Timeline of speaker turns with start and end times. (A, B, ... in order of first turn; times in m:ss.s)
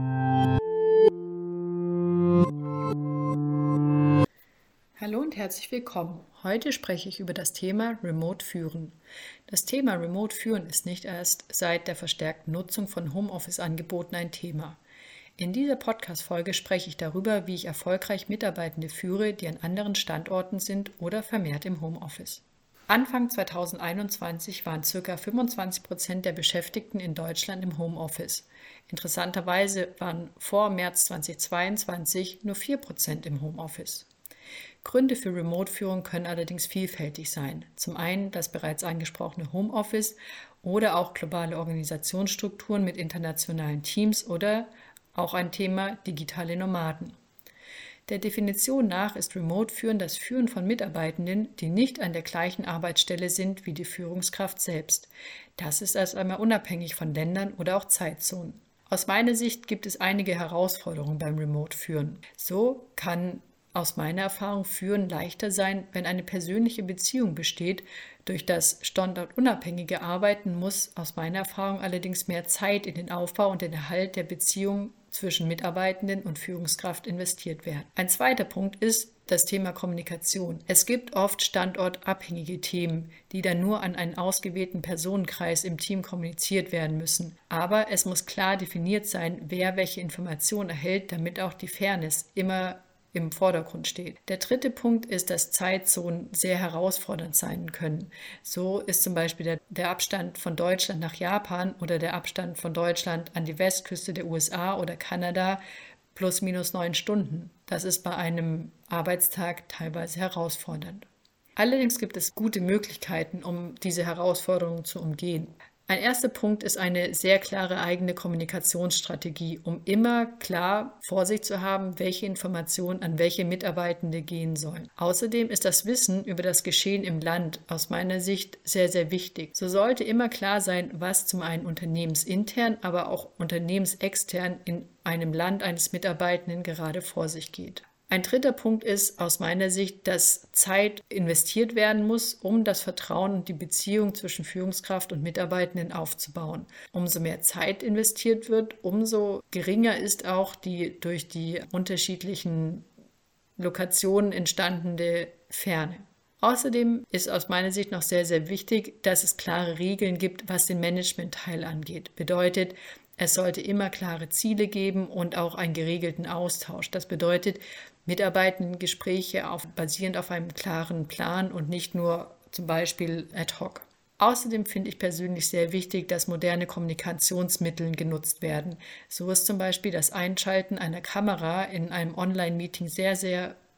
0:05.0-0:09.0 A
0:09.5-0:14.8 A
0:15.4-0:34.1 A
0:34.8-0:47.1 A
0:48.1-1:45.6 A
1:46.1-2:32.8 A
2:33.6-3:03.6 A